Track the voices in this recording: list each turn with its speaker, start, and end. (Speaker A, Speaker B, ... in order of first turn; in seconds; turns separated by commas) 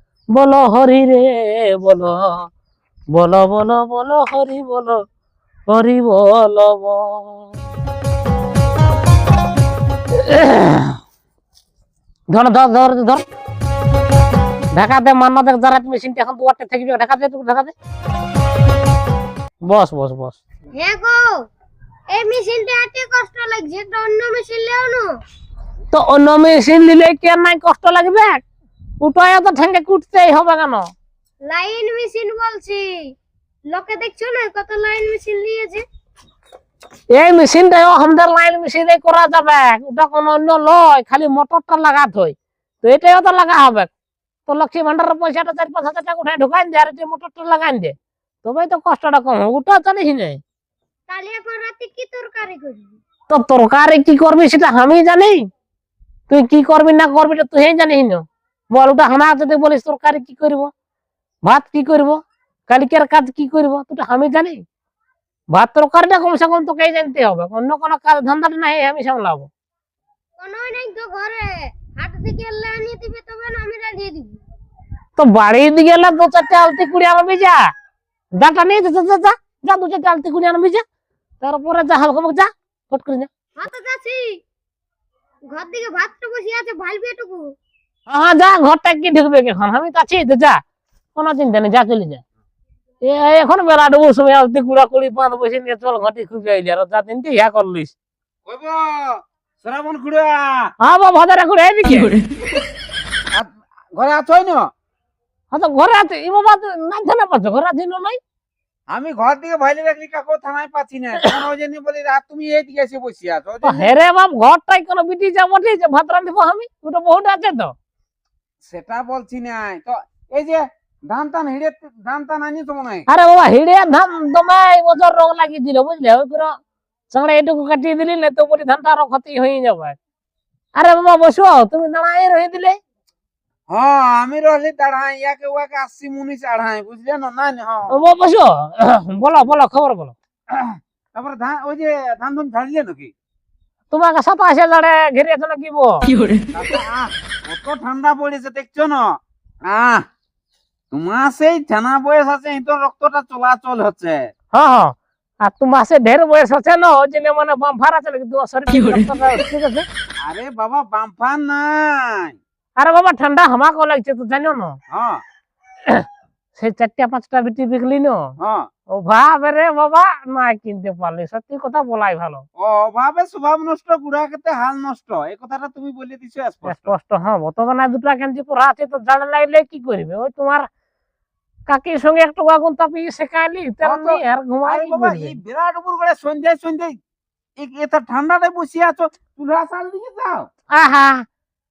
Speaker A: 0.3-2.5, Speaker A: 3.1-5.0, Speaker A: 5.7-7.5, Speaker A: 10.1-11.0, Speaker A: 12.3-13.2, Speaker A: 14.7-17.7, Speaker A: 19.6-20.4, Speaker B: 20.8-21.2, Speaker B: 22.1-25.1, Speaker A: 25.9-28.4, Speaker A: 29.0-30.9, Speaker B: 31.4-32.8, Speaker B: 33.7-35.8, Speaker A: 37.1-43.9, Speaker A: 44.5-50.4, Speaker B: 51.1-53.0, Speaker A: 53.3-55.4, Speaker A: 56.3-60.7, Speaker A: 61.4-64.6, Speaker A: 65.5-69.5, Speaker B: 70.4-74.4, Speaker A: 75.2-77.6, Speaker A: 78.4-80.8, Speaker A: 81.4-83.3, Speaker B: 83.6-84.3, Speaker B: 85.5-87.5, Speaker A: 88.1-90.6, Speaker A: 91.1-92.2, Speaker A: 93.0-97.9, Speaker C: 98.5-100.7, Speaker A: 100.8-102.1, Speaker C: 103.3-104.7, Speaker A: 105.5-108.2, Speaker C: 108.9-113.9, Speaker A: 113.6-117.7, Speaker C: 118.6-123.0, Speaker A: 123.1-126.5, Speaker A: 127.1-130.0, Speaker A: 130.8-132.8, Speaker C: 133.7-137.9, Speaker A: 137.9-140.1, Speaker C: 140.5-143.1, Speaker A: 143.9-146.1, Speaker C: 146.5-150.0, Speaker C: 150.9-154.3, Speaker A: 154.5-159.8, Speaker C: 160.2-162.3, Speaker A: 162.8-164.8, Speaker C: 164.9-165.2, Speaker A: 165.9-168.3, Speaker C: 168.4-168.7, Speaker A: 168.9-172.4, Speaker C: 172.6-176.9, Speaker A: 176.7-180.7, Speaker A: 181.7-185.4, Speaker C: 183.8-186.9, Speaker C: 187.6-190.5, Speaker A: 190.7-191.2